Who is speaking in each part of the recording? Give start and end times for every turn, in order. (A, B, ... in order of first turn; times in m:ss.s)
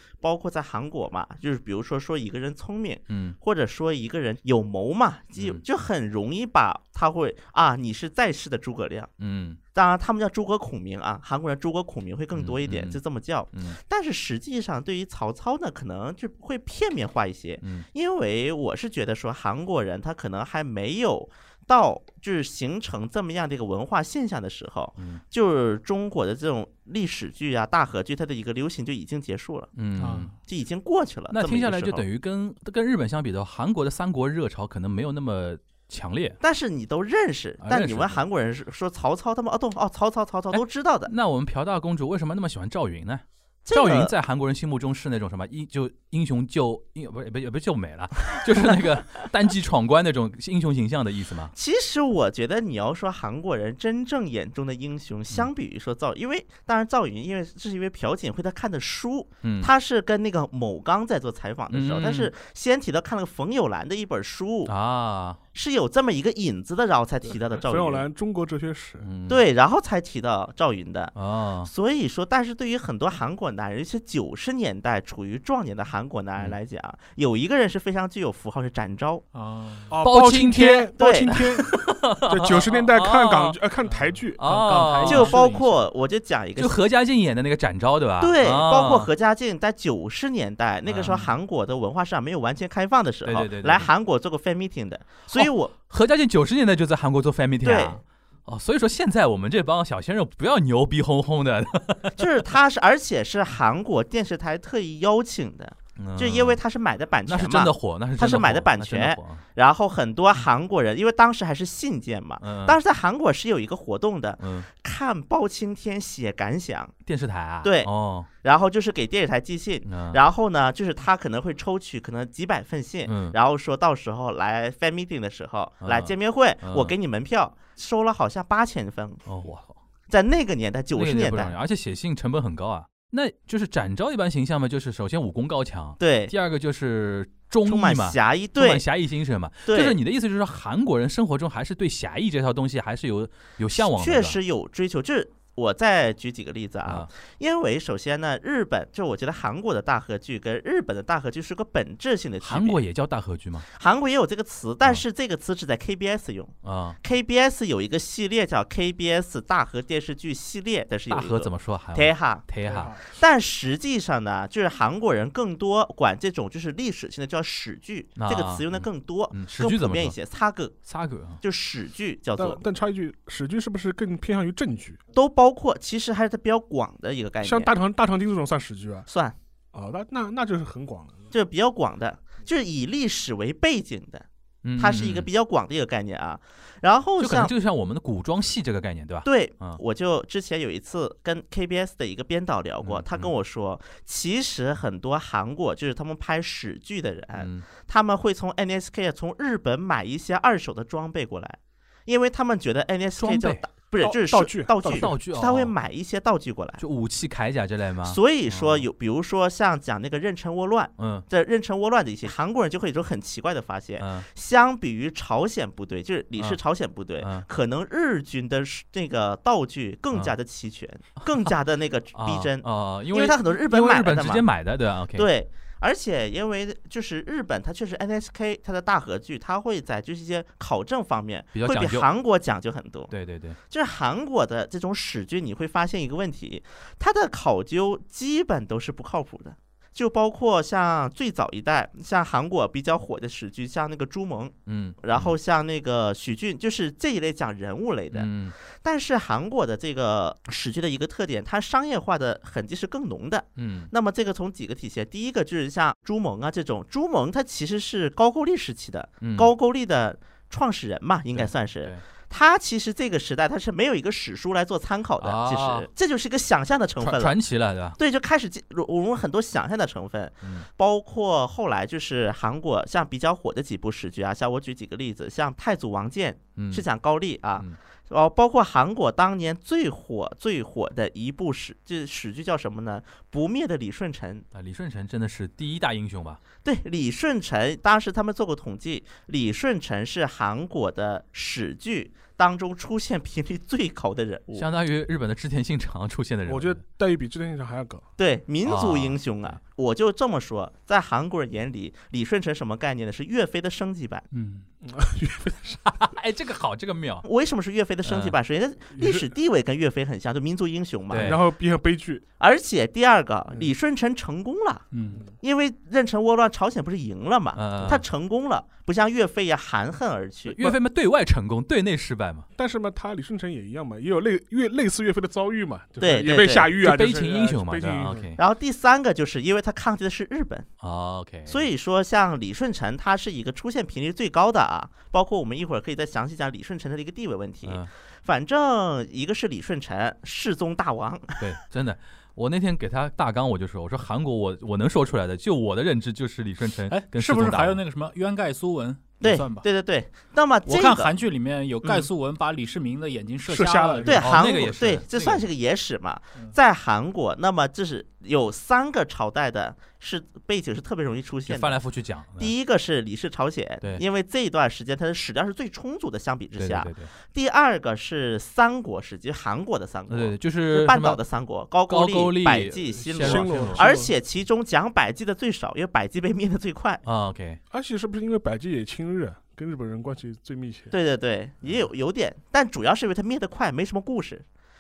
0:00.2-0:09.1 A
0:03.1-0:03.4 B
0:05.4-0:05.6 B
0:09.2-0:09.6 B
0:09.7-0:29.7 A
0:12.3-0:13.0 B
0:13.5-0:13.8 B
0:25.0-0:25.2 B
0:29.8-0:30.3 B
0:30.0-0:30.3 C
0:30.5-0:32.0 A
0:31.3-0:36.4 B
0:36.4-0:41.1 A
0:37.6-0:38.2 B
0:40.5-0:51.5 B
0:43.6-0:44.1 A
0:51.5-1:04.7 A
0:59.4-0:59.7 B
1:01.7-1:02.3 B
1:04.7-1:05.4 B
1:05.5-1:08.1 A
1:07.3-1:09.1 D
1:09.0-1:09.4 B
1:09.3-1:19.2 A
1:11.2-1:11.7 B
1:19.3-1:20.0 C
1:19.9-1:24.4 D
1:20.0-1:23.6 B
1:21.0-1:21.4 A
1:23.8-1:25.8 C
1:24.4-1:25.4 B
1:25.0-1:26.8 A
1:26.6-1:29.1 B
1:28.2-1:35.7 A
1:30.9-1:31.2 B
1:33.2-1:33.9 B
1:35.3-1:42.3 B
1:37.6-1:38.0 A
1:42.2-1:56.9 A
1:46.0-1:46.6 B
1:47.3-1:49.4 B
1:52.4-1:52.8 B
1:54.4-1:54.7 B
1:57.1-1:58.3 B
1:57.6-1:57.9 A
1:58.4-2:09.2 A
1:59.9-2:00.2 B
2:03.1-2:03.4 B
2:05.8-2:06.9 B
2:09.3-2:09.8 B
2:10.1-2:11.5 A
2:11.0-2:24.4 B
2:16.0-2:16.3 A
2:17.6-2:18.8 A
2:19.7-2:20.0 A
2:23.7-2:32.8 A
2:32.4-2:33.7 B
2:33.7-2:42.4 A
2:36.6-2:37.0 B
2:41.1-2:42.9 B
2:42.6-2:43.1 D
2:43.1-2:50.8 A
2:48.2-2:50.2 B
2:50.9-2:51.4 B
2:51.4-2:52.6 A
2:52.4-2:55.0 D
2:55.1-2:57.7 A
2:57.4-2:59.1 D
2:59.1-2:59.4 A
2:59.7-3:01.3 D
3:01.3-3:04.3 A
3:04.6-3:05.3 B
3:04.8-3:07.5 A
3:07.2-3:09.8 B
3:09.2-3:26.8 A
3:12.8-3:13.3 B
3:17.4-3:17.7 B
3:23.2-3:23.6 B
3:24.0-3:25.1 D
3:24.9-3:25.7 B
3:26.8-3:28.9 B
3:28.0-3:44.4 A
3:31.0-3:31.3 B
3:34.0-3:34.3 B
3:37.2-3:37.5 B
3:42.2-3:45.3 B
3:45.2-3:53.1 A
3:51.5-3:52.1 B
3:53.1-3:53.6 B
3:53.7-4:27.4 A
4:04.7-4:05.4 B
4:08.1-4:08.5 B
4:13.6-4:13.9 B
4:19.2-4:19.5 B
4:21.3-4:22.0 B
4:25.2-4:25.9 B
4:27.0-4:28.0 B
4:28.0-4:44.5 A
4:36.6-4:36.8 B
4:44.5-4:46.4 B
4:46.6-4:54.7 A
4:54.6-4:56.8 B
4:56.5-4:58.1 D
4:58.2-5:04.2 A
4:58.6-4:59.6 B
5:04.3-5:04.6 C
5:04.8-5:06.0 D
5:05.9-5:07.2 B
5:07.2-5:11.4 A
5:08.0-5:08.4 B
5:09.0-5:09.3 D
5:11.1-5:11.4 B
5:11.1-5:12.2 D
5:12.4-5:14.8 A
5:14.9-5:15.2 C
5:15.4-5:20.6 A
5:17.6-5:18.0 B
5:20.5-5:22.5 B
5:22.6-5:28.3 D
5:26.0-5:26.8 A
5:26.8-5:28.4 B
5:28.4-5:30.7 A
5:30.8-5:31.7 B
5:31.5-5:41.4 A
5:37.6-5:37.9 B
5:41.4-5:47.8 B
5:46.9-5:49.7 C
5:49.2-5:51.1 A
5:50.7-5:54.4 C
5:53.5-5:54.5 D
5:54.0-6:01.8 A
5:54.2-5:55.5 B
6:01.5-6:02.5 B
6:02.4-6:17.0 A
6:06.6-6:07.1 B
6:10.1-6:11.2 B
6:11.9-6:13.9 B
6:13.2-6:14.1 D
6:17.0-6:17.6 B
6:17.7-6:20.9 D
6:20.9-6:24.4 A